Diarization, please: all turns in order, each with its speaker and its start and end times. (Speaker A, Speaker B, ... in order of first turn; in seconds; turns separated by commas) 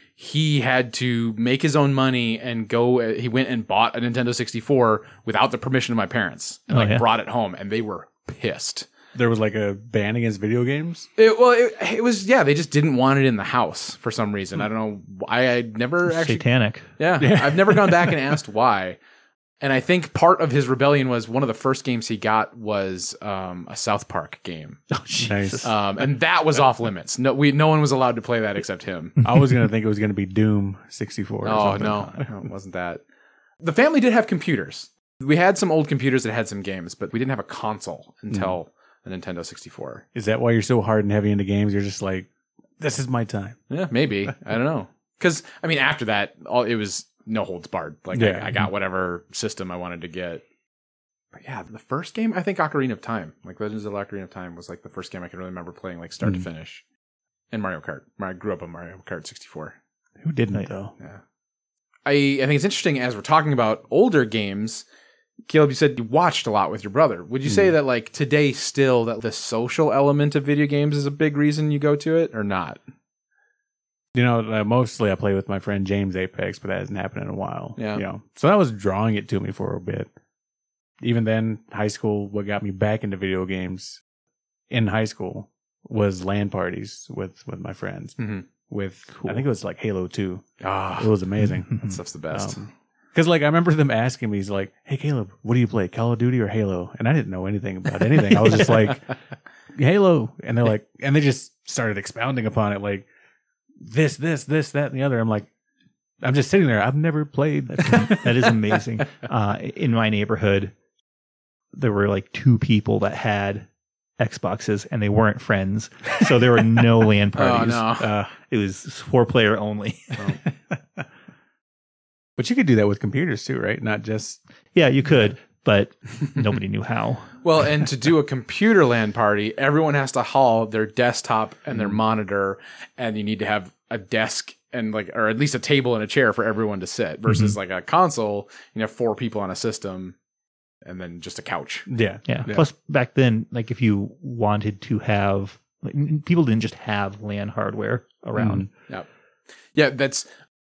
Speaker A: 0.2-8.9, Speaker B: 6.7-7.0, Speaker C: 9.1-11.1, Speaker A: 11.2-16.4, Speaker B: 16.1-16.9, Speaker A: 17.0-19.0, Speaker C: 17.2-18.3, Speaker A: 19.6-24.8, Speaker B: 24.9-25.7, Speaker C: 25.2-25.6, Speaker A: 25.6-29.2, Speaker C: 29.2-32.1, Speaker A: 31.4-33.0, Speaker B: 31.7-32.2, Speaker A: 33.6-40.0, Speaker C: 40.1-42.3, Speaker C: 42.8-43.6, Speaker A: 43.7-50.4, Speaker C: 48.1-48.5, Speaker A: 51.3-56.8, Speaker A: 57.5-59.8, Speaker C: 60.2-60.9, Speaker A: 62.0-64.8, Speaker A: 65.5-72.8, Speaker C: 74.1-80.1, Speaker A: 77.8-78.0, Speaker C: 81.0-84.0, Speaker C: 84.7-99.1, Speaker A: 88.2-88.5, Speaker B: 89.1-89.5, Speaker A: 90.6-91.1, Speaker B: 91.7-92.0, Speaker A: 91.7-92.6, Speaker C: 99.7-103.0, Speaker C: 103.8-105.5, Speaker C: 106.2-108.5, Speaker B: 107.7-110.7, Speaker B: 111.7-113.7, Speaker B: 114.2-120.3, Speaker A: 117.3-118.1, Speaker C: 118.0-118.3, Speaker C: 122.4-124.4, Speaker B: 124.7-127.4, Speaker A: 127.4-140.2, Speaker A: 140.8-141.9, Speaker C: 141.9-142.6, Speaker B: 142.3-148.7, Speaker C: 148.3-148.7, Speaker A: 149.7-150.3